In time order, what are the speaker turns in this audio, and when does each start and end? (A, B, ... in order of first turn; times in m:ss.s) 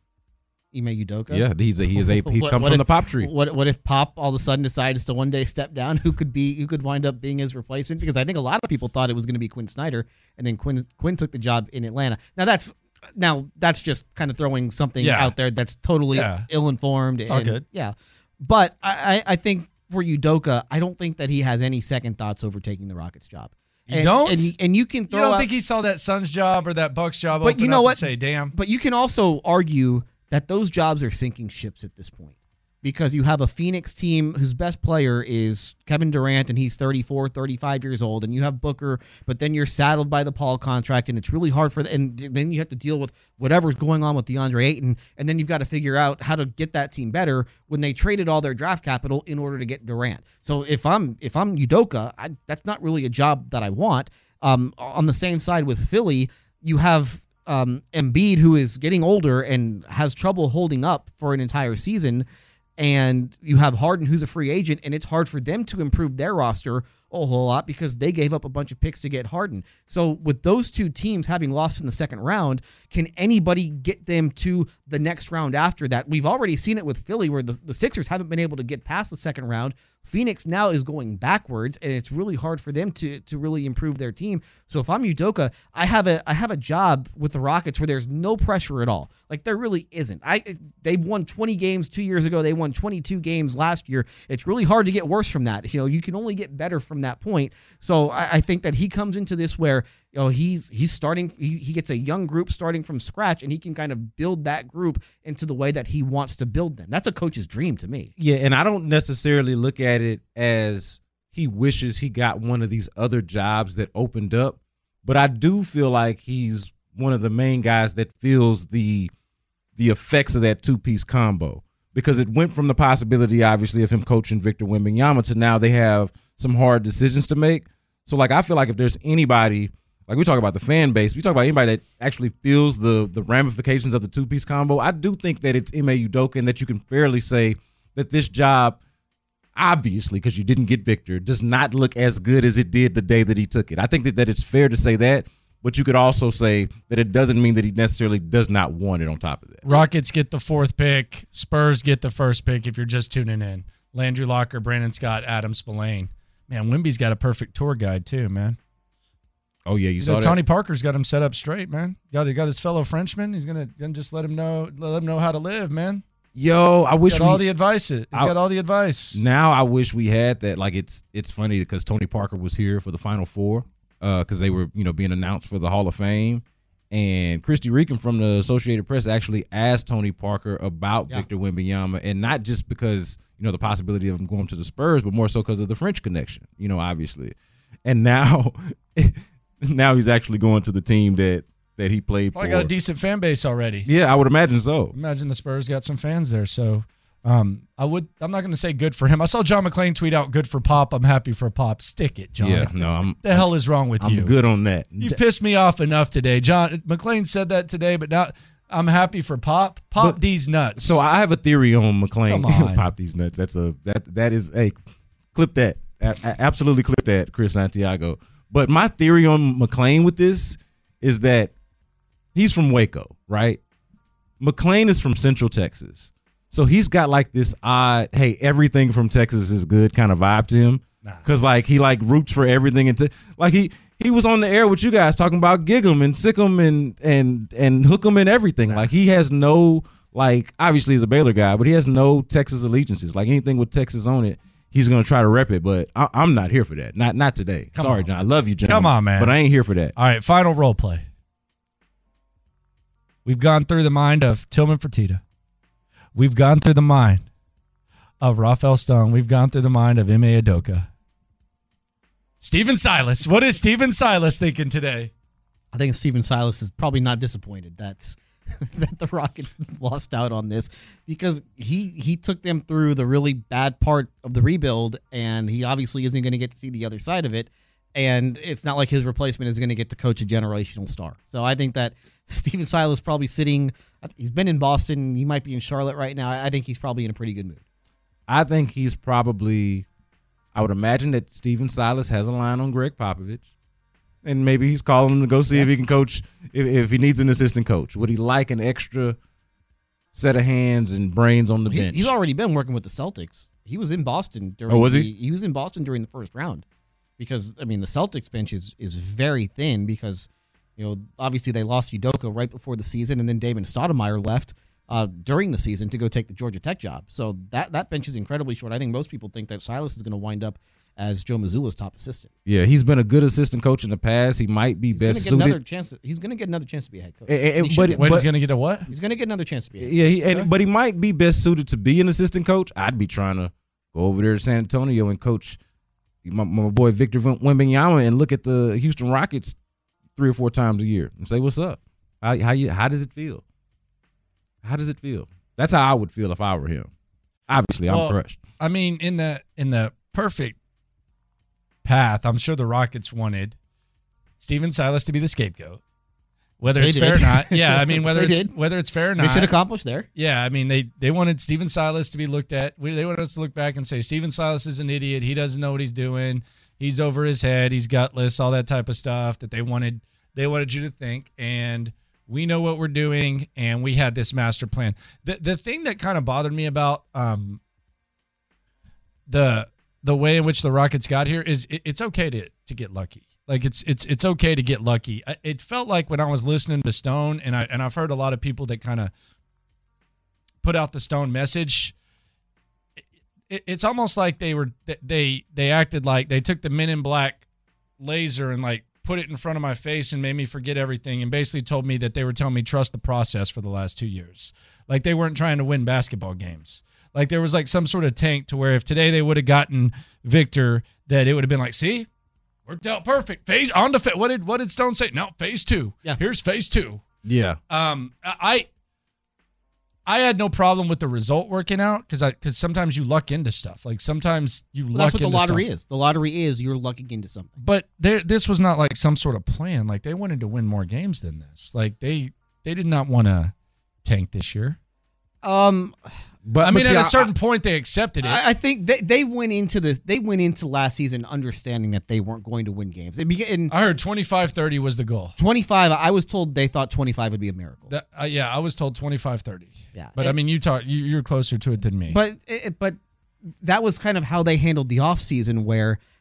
0:00.7-0:01.4 A
0:01.3-0:03.3 B
0:02.0-0:25.4 A
0:15.0-0:15.3 C
0:16.1-0:16.5 C
0:17.2-0:17.6 C
0:23.9-0:24.5 C
0:25.1-0:28.5 C
0:27.4-0:28.0 A
0:28.5-1:48.1 A
1:48.2-1:59.1 B
1:59.8-2:18.8 B
2:19.5-2:29.7 B
2:29.7-2:38.6 C
2:39.6-2:40.4 B
2:40.0-2:46.0 C
2:46.3-2:47.4 B
2:47.0-2:49.2 C
2:49.1-3:12.7 B
3:12.3-3:13.9 C
3:13.8-3:14.9 B
3:14.9-3:24.3 C
3:22.4-3:23.5 B
3:24.0-3:25.2 B
3:25.0-3:31.0 C
3:30.7-3:34.8 B
3:32.3-3:32.8 C
3:35.3-3:41.5 B
3:42.3-3:43.6 B
3:44.4-4:09.9 B
4:07.7-4:08.1 C
4:08.6-4:09.4 C
4:10.0-4:11.0 C
4:13.2-4:15.2 C
4:16.1-4:17.2 C
4:18.2-4:20.9 C
4:22.4-4:25.1 C
4:25.7-4:47.6 A
4:48.3-4:49.8 B
4:50.5-4:53.5 B
4:54.2-4:59.2 B
5:00.1-5:02.1 B
5:01.7-5:06.6 A
5:04.7-5:05.1 B
5:07.2-5:22.3 A
5:22.4-5:25.6 B
5:24.9-5:28.1 A
5:27.3-5:28.3 B
5:27.6-5:28.9 C
5:28.9-5:29.9 A
5:29.8-5:35.6 B
5:36.2-5:39.6 B
5:40.2-5:43.4 B
5:44.6-5:46.9 B
5:47.5-5:48.4 B
5:47.9-5:50.6 C
5:51.8-5:53.6 C
5:54.4-5:55.8 C
5:56.6-5:59.5 C
5:56.8-5:58.5 A
5:59.2-6:00.1 A
6:00.2-6:17.6 C
6:19.3-6:29.1 C
6:30.6-6:31.9 C
6:33.5-6:37.4 C
6:38.0-6:52.1 C
6:52.7-6:57.0 C
6:57.2-6:57.6 B
6:57.7-6:58.7 C
7:00.0-7:05.7 C
7:05.0-7:07.5 A
7:07.6-7:14.8 C
7:15.4-7:16.2 A
7:16.4-7:17.3 B
7:16.6-7:18.4 C
7:18.2-7:23.7 A
7:23.7-7:25.4 C
7:25.4-7:27.9 A
7:27.9-7:32.2 C
7:29.9-7:30.4 A
7:32.1-7:33.0 A
7:33.5-7:36.0 A